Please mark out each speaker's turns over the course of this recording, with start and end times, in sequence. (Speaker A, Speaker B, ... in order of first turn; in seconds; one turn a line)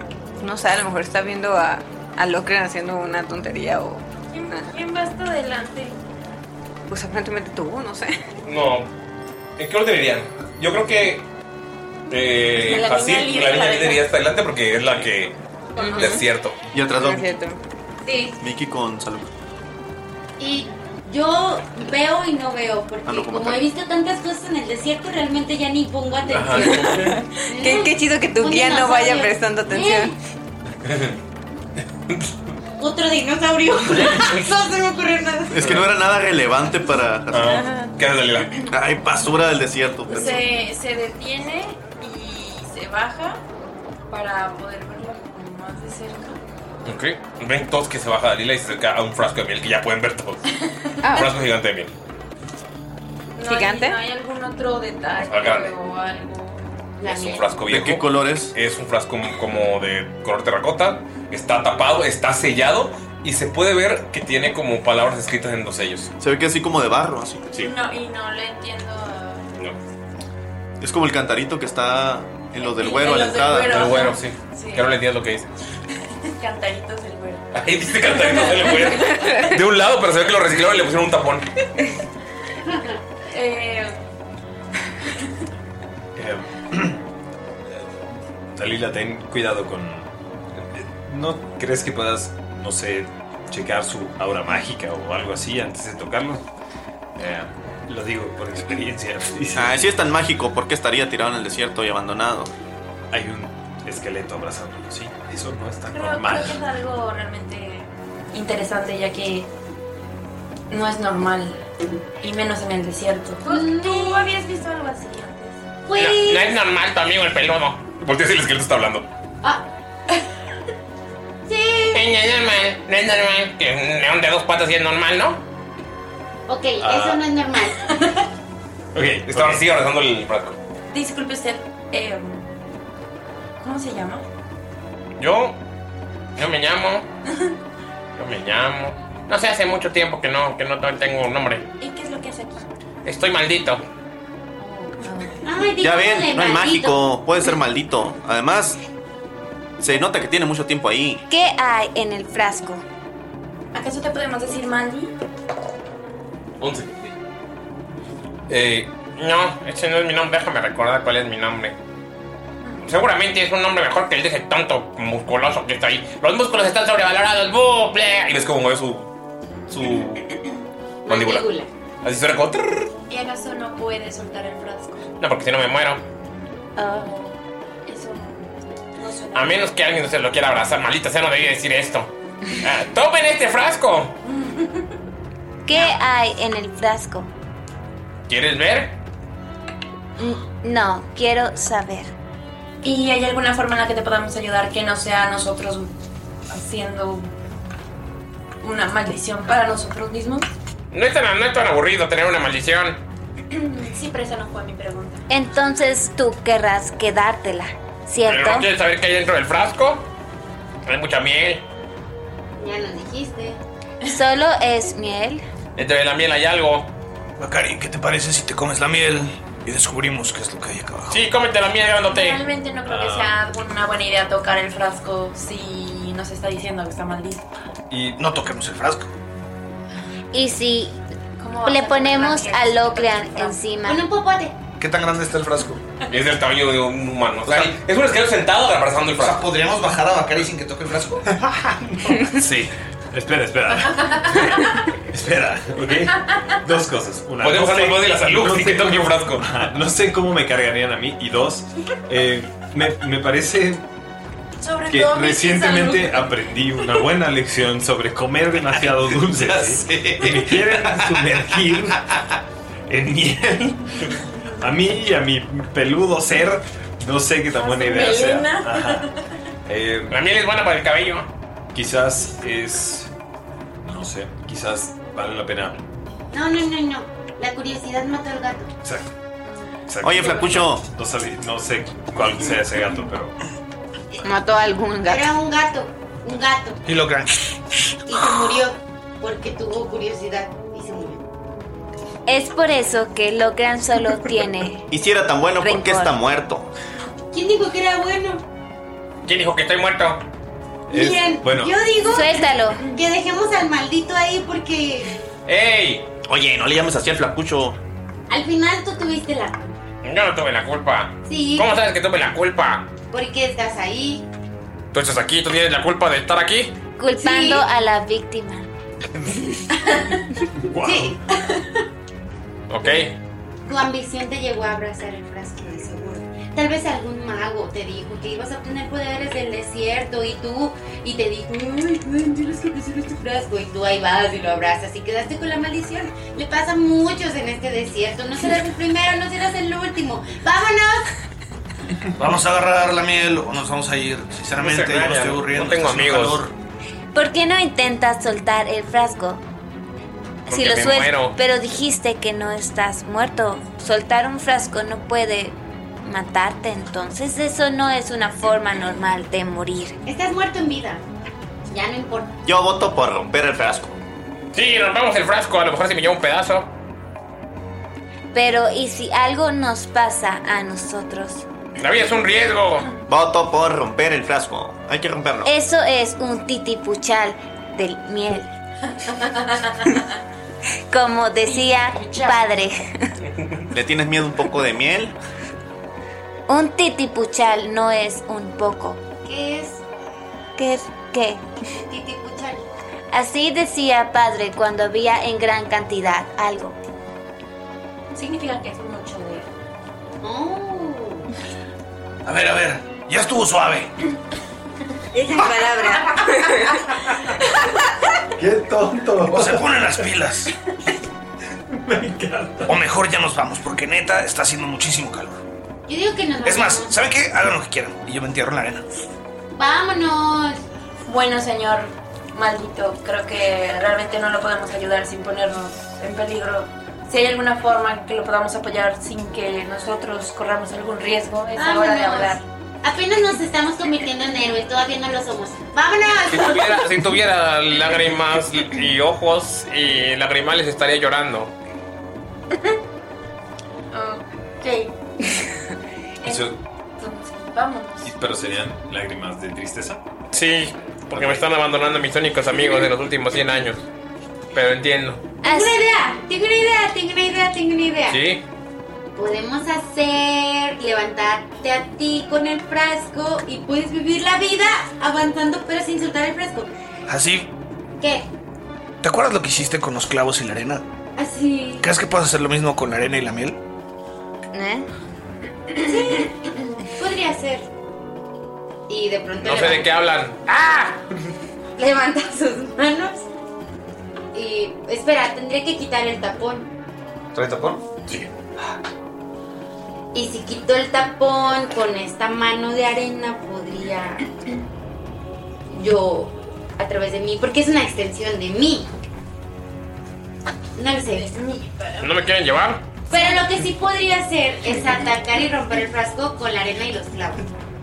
Speaker A: 0.4-4.6
Speaker B: 4.3-6.0
Speaker A: 6.9-8.2
Speaker C: 8.4-8.9
Speaker C: 9.6-11.2
Speaker C: 12.1-15.3
Speaker B: 12.6-14.0
Speaker B: 15.7-16.2
Speaker A: 15.8-16.2
Speaker C: 15.9-16.6
Speaker D: 16.7-17.3
Speaker A: 16.9-17.6
Speaker E: 18.1-18.3
Speaker D: 18.4-19.3
Speaker E: 20.4-30.1
Speaker D: 23.1-23.6
Speaker C: 26.3-27.1
Speaker A: 26.9-30.1
Speaker C: 30.9-31.1
Speaker E: 32.8-35.8
Speaker D: 35.5-37.7
Speaker C: 37.3-38.6
Speaker A: 37.4-37.9
Speaker D: 38.7-40.5
Speaker B: 40.1-43.4
Speaker B: 44.1-46.4
Speaker C: 46.8-50.5
Speaker A: 51.0-51.3
Speaker C: 51.1-51.9
Speaker B: 53.4-56.6
Speaker A: 53.4-54.0
Speaker C: 55.3-55.7
Speaker E: 57.0-57.4
Speaker C: 57.0-66.1
Speaker D: 57.7-58.5
Speaker D: 66.2-67.5
Speaker B: 67.5-69.5
Speaker D: 70.8-74.0
Speaker B: 72.6-74.9
Speaker C: 73.6-75.5
Speaker B: 76.3-77.4
Speaker C: 77.5-81.5
Speaker B: 78.0-79.2
Speaker A: 79.2-79.5
Speaker B: 83.3-83.9
Speaker F: 86.2-87.0
Speaker F: 88.5-96.4
Speaker F: 97.2-99.9
Speaker D: 99.5-102.5
Speaker F: 103.1-106.6
Speaker B: 105.9-109.5
Speaker B: 110.7-111.6
Speaker B: 112.2-115.6
Speaker E: 113.4-114.4
Speaker E: 115.8-116.5
Speaker C: 115.9-119.1
Speaker E: 121.5-122.1
Speaker C: 121.9-125.4
Speaker E: 126.5-127.9
Speaker F: 126.8-127.2
Speaker F: 128.9-129.7
Speaker C: 129.3-130.6
Speaker B: 130.9-132.5
Speaker B: 133.6-134.2
Speaker C: 135.2-135.6
Speaker C: 136.4-137.1
Speaker C: 138.2-141.7
Speaker B: 141.8-142.7
Speaker C: 143.0-143.8
Speaker B: 144.6-145.5
Speaker E: 145.4-147.0
Speaker D: 145.8-148.8
Speaker D: 149.8-151.2
Speaker G: 151.3-152.8
Speaker B: 153.7-155.1
Speaker C: 156.6-157.1
Speaker C: 158.5-161.7
Speaker C: 162.8-169.1
Speaker C: 169.7-170.3
Speaker E: 171.0-171.7
Speaker C: 171.1-171.5
Speaker C: 172.0-172.9
Speaker B: 173.1-175.1
Speaker C: 175.2-176.0
Speaker G: 176.8-177.1
Speaker B: 176.9-179.7
Speaker C: 179.3-184.1
Speaker B: 184.3-184.8
Speaker G: 185.6-187.3
Speaker C: 188.3-188.9
Speaker G: 190.2-192.1
Speaker B: 192.8-195.9
Speaker B: 196.5-197.3
Speaker B: 198.6-200.5
Speaker C: 200.9-203.0
Speaker B: 203.5-205.2
Speaker G: 205.3-208.7
Speaker C: 208.2-210.1
Speaker C: 210.8-211.6
Speaker E: 212.6-213.6
Speaker G: 214.1-215.4
Speaker C: 215.8-216.9
Speaker H: 217.4-221.2
Speaker C: 221.1-222.4
Speaker B: 222.1-227.5
Speaker F: 222.8-223.3
Speaker F: 227.9-228.2
Speaker H: 228.2-229.1
Speaker G: 230.3-231.0
Speaker B: 231.4-233.7
Speaker G: 231.6-234.0
Speaker E: 233.8-234.5
Speaker H: 234.8-235.8
Speaker C: 236.1-239.5
Speaker H: 237.5-237.7
Speaker H: 239.2-241.3
Speaker F: 241.4-253.8
Speaker C: 247.4-249.5
Speaker B: 254.6-256.9
Speaker F: 254.9-262.1
Speaker H: 259.3-261.2
Speaker F: 262.9-269.1
Speaker B: 267.5-269.2
Speaker F: 269.7-270.2
Speaker C: 270.1-271.3
Speaker F: 271.7-273.1
Speaker F: 273.8-275.8
Speaker E: 276.3-278.7
Speaker F: 278.8-279.1
Speaker F: 279.9-283.4
Speaker D: 280.0-280.8
Speaker A: 284.2-285.3
Speaker E: 285.1-286.8
Speaker H: 286.9-287.5
Speaker E: 288.1-291.2
Speaker G: 292.2-294.9
Speaker D: 294.9-296.7
Speaker G: 295.6-296.1
Speaker E: 297.3-298.4
Speaker C: 299.2-300.2
Speaker F: 300.9-301.7
Speaker E: 300.9-305.1
Speaker G: 302.0-302.9
Speaker C: 305.5-306.1
Speaker D: 306.2-307.8
Speaker E: 308.3-309.7
Speaker C: 310.0-312.9
Speaker E: 311.3-311.7
Speaker E: 313.1-314.2
Speaker C: 314.9-316.8
Speaker G: 317.0-318.7
Speaker E: 317.2-317.6
Speaker F: 320.6-321.2
Speaker E: 320.8-321.2
Speaker C: 322.7-323.1
Speaker E: 323.6-341.1
Speaker H: 342.1-346.5
Speaker C: 344.6-346.4
Speaker G: 347.1-349.4
Speaker G: 350.5-360.0
Speaker C: 350.5-351.4
Speaker E: 360.0-361.0
Speaker E: 361.7-362.3
Speaker D: 362.4-364.0
Speaker C: 364.5-366.7
Speaker G: 368.3-371.4
Speaker C: 371.8-372.9
Speaker D: 373.1-375.5
Speaker G: 375.4-378.5
Speaker B: 379.2-379.7
Speaker G: 380.9-382.9
Speaker B: 381.4-382.6
Speaker D: 383.7-385.1
Speaker G: 386.5-389.0
Speaker E: 389.2-389.8
Speaker G: 390.6-391.4
Speaker E: 391.8-392.6
Speaker G: 393.1-396.8
Speaker B: 398.1-399.5
Speaker E: 400.2-401.3
Speaker H: 402.2-403.9
Speaker A: 405.1-406.8
Speaker B: 406.1-406.7
Speaker F: 408.4-409.8
Speaker H: 409.3-410.5
Speaker F: 411.7-412.8
Speaker H: 412.7-415.4
Speaker E: 415.9-417.0
Speaker H: 416.4-418.9
Speaker E: 419.5-420.6
Speaker B: 421.0-432.4
Speaker E: 431.5-436.9
Speaker C: 436.3-441.5
Speaker B: 443.9-444.9
Speaker B: 446.2-448.1
Speaker F: 446.2-446.5
Speaker F: 448.0-450.0
Speaker C: 450.3-453.8
Speaker F: 451.1-451.4
Speaker C: 454.5-455.2
Speaker E: 455.4-458.2
Speaker G: 455.4-455.8
Speaker C: 458.1-458.4
Speaker E: 459.1-466.7
Speaker H: 467.1-467.5
Speaker E: 468.0-468.3
Speaker H: 469.0-470.8
Speaker E: 471.1-471.9
Speaker H: 471.8-473.6
Speaker A: 474.5-474.9
Speaker E: 475.8-477.7
Speaker E: 478.9-479.9
Speaker C: 479.4-481.0
Speaker E: 481.8-483.2
Speaker E: 484.3-486.7
Speaker F: 487.3-487.8
Speaker E: 490.1-494.3
Speaker E: 495.7-498.9
Speaker E: 500.8-501.3
Speaker B: 501.3-502.1
Speaker C: 502.0-502.8
Speaker E: 503.1-507.4